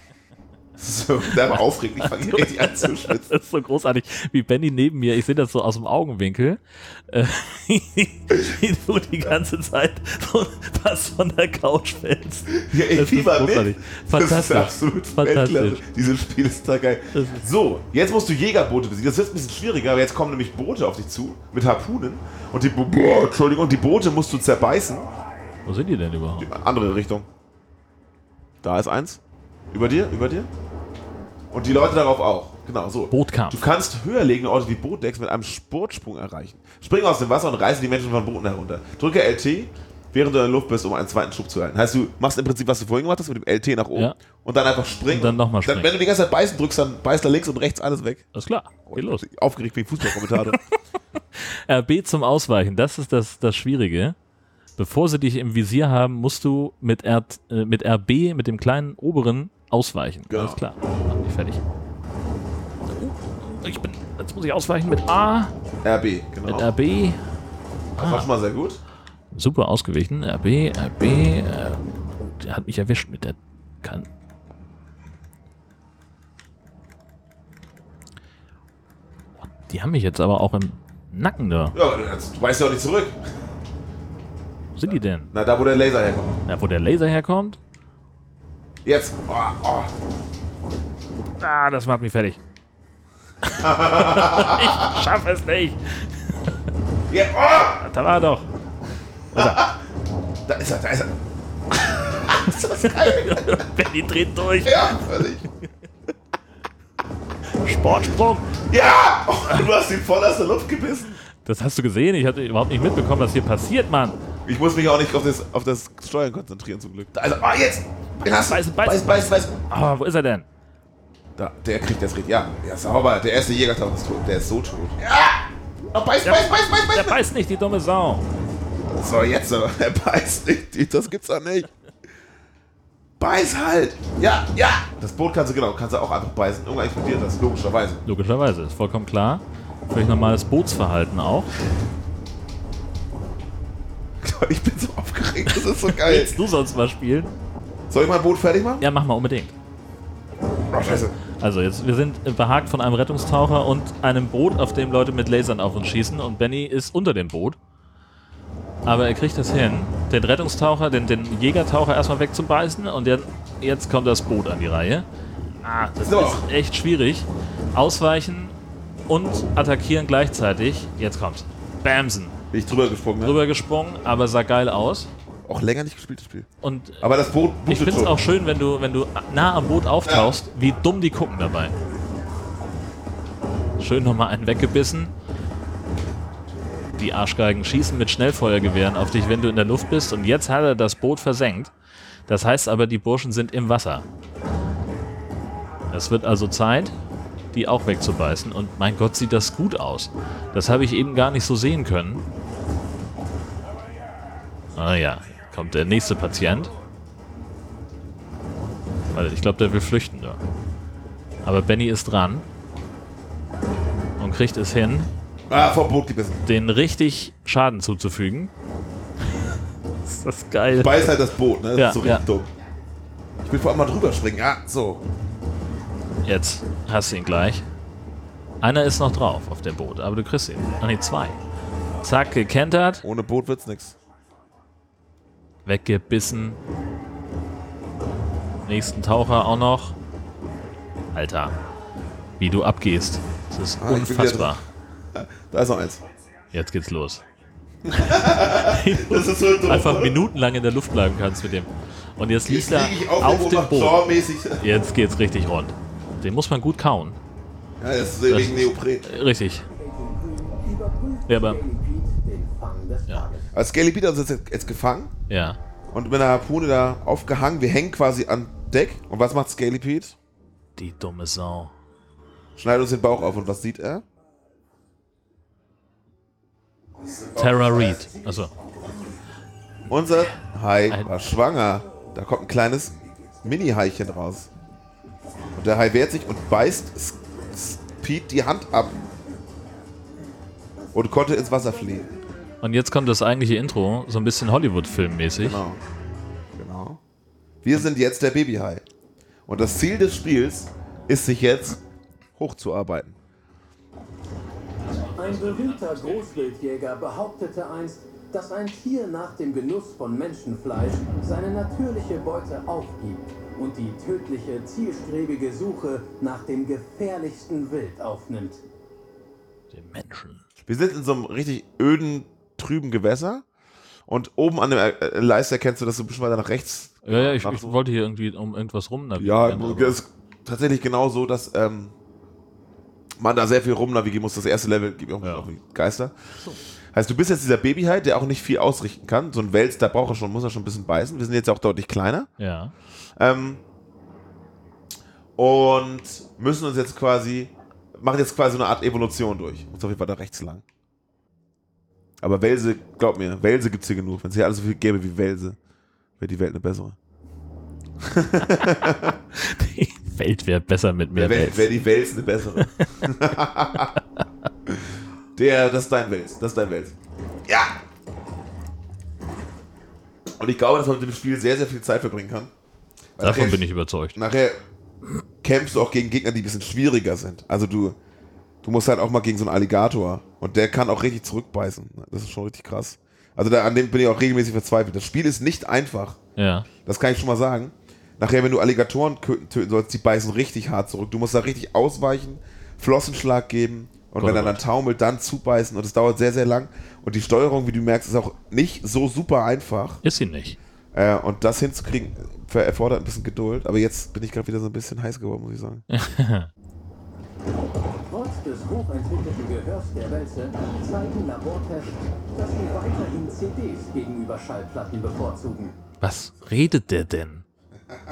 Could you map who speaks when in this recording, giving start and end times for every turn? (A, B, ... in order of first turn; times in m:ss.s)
0:00.8-0:03.3 A
0:01.3-0:15.8 B
0:12.5-0:25.1 A
0:17.1-0:17.4 B
0:25.6-0:26.5 B
0:26.4-0:27.3 A
0:28.6-0:29.2 A
0:29.7-0:30.5 A
0:31.5-0:48.3 A
0:33.1-0:33.6 B
0:45.1-0:45.9 B
0:48.3-0:49.2 B
0:48.9-0:50.6 A
0:50.0-0:50.6 B
0:51.3-0:54.2 B
0:54.8-1:01.6 B
1:00.3-1:00.6 A
1:02.9-1:05.5 B
1:05.8-1:06.7 A
1:06.4-1:07.2 B
1:08.0-1:08.3 B
1:08.0-1:08.8 A
1:09.3-1:14.1 B
1:19.4-1:21.8 B
1:21.7-1:23.2 A
1:24.8-1:25.3 B
1:25.3-1:26.4 A
1:26.5-1:27.6 B
1:28.8-1:29.9 A
1:31.4-1:32.4 B
1:33.4-1:36.6 B
1:33.5-1:35.0 A
1:37.1-1:37.8 A
1:37.8-1:38.5 B
1:39.3-1:39.7 B
1:39.3-1:39.8 A
1:40.4-1:41.1 A
1:41.7-1:43.6 A
1:42.4-1:45.7 B
1:44.6-1:45.4 A
1:47.6-1:48.6 B
1:48.7-1:51.2 A
1:51.4-1:54.2 B
1:54.4-1:59.5 A
1:58.2-2:00.5 B
2:01.4-2:07.2 A
2:06.2-2:08.2 B
2:08.9-2:11.7 A
2:13.2-2:18.0 A
2:18.0-2:21.5 B
2:24.2-2:26.4 A
2:25.5-2:27.3 B
2:27.9-2:28.8 A
2:28.8-2:29.5 B
2:30.7-2:31.1 A
2:30.8-2:37.6 B
2:38.8-2:45.0 B
2:45.6-2:48.5 B
2:46.0-2:46.4 A
2:49.1-2:52.3 B
2:52.5-2:53.4 A
2:53.2-2:55.1 B
2:55.4-2:56.5 A
2:56.6-2:57.1 B
2:57.0-2:58.2 A
2:57.7-3:01.7 B
3:00.0-3:00.3 A
3:03.8-3:05.1 B
3:07.0-3:11.7 B
3:12.3-3:14.0 B
3:15.9-3:16.9 B
3:17.5-3:22.2 B
3:24.7-3:26.7 B
3:29.1-3:30.4 B
3:31.4-3:32.4 B
3:34.2-3:35.1 B
3:35.5-3:36.4 A
3:36.4-3:38.5 B
3:40.0-3:41.1 B
3:40.7-3:42.5 A
3:41.8-3:42.2 B
3:43.4-3:45.0 A
3:46.2-3:47.6 B
3:48.6-3:51.4 B
3:52.0-3:53.0 B
3:53.0-3:54.0 A
3:55.6-3:56.6 B
3:58.7-4:00.0 B
4:01.1-4:01.5 B
4:02.4-4:04.6 B
4:03.8-4:04.6 A
4:05.1-4:06.0 A
4:06.5-4:07.2 B
4:07.8-4:10.2 A
4:07.9-4:14.0 B
4:12.4-4:14.6 A
4:14.6-4:17.2 B
4:17.8-4:19.0 A
4:18.3-4:19.6 B
4:19.7-4:23.5 C
4:21.3-4:21.6 B
4:23.5-4:25.1 A
4:25.3-4:25.6 B
4:25.9-4:30.2 A
4:30.8-4:31.7 B
4:32.6-4:34.0 A
4:37.2-4:38.0 A
4:37.3-4:38.5 B
4:39.9-4:44.5 A
4:45.5-4:49.0 A
4:50.9-4:52.1 A
4:52.6-4:55.6 B
4:55.4-4:55.8 A
4:56.6-4:57.0 A
4:57.6-4:58.8 A
4:59.5-5:01.8 A
5:02.4-5:03.2 A
5:04.8-5:06.4 B
5:05.2-5:18.6 C
5:19.7-5:20.4 B
5:20.6-5:23.4 A
5:24.1-5:27.8 A
5:27.0-5:30.0 B
5:29.2-5:31.9 A
5:33.2-5:36.1 A
5:35.2-5:35.5 B
5:36.9-5:42.3 A
5:42.4-5:42.7 B
5:43.2-5:43.6 A
5:45.4-5:50.6 A
5:52.2-5:55.6 A
5:56.2-5:57.0 A
5:58.0-5:59.2 A
5:58.6-6:01.7 B
6:01.1-6:03.9 A
6:02.6-6:03.1 B
6:04.0-6:04.2 B
6:05.4-6:06.9 A
6:07.5-6:07.8 A
6:10.4-6:12.5 A
6:13.2-6:14.6 A
6:13.2-6:14.2 B
6:15.4-6:18.0 A
6:18.6-6:26.2 A
6:26.4-6:26.7 B
6:26.8-6:40.0 A
6:34.2-6:34.6 B
6:40.0-6:40.6 B
6:40.9-6:45.8 A
6:45.9-6:46.5 B
6:48.1-6:55.7 C
6:56.0-6:57.4 B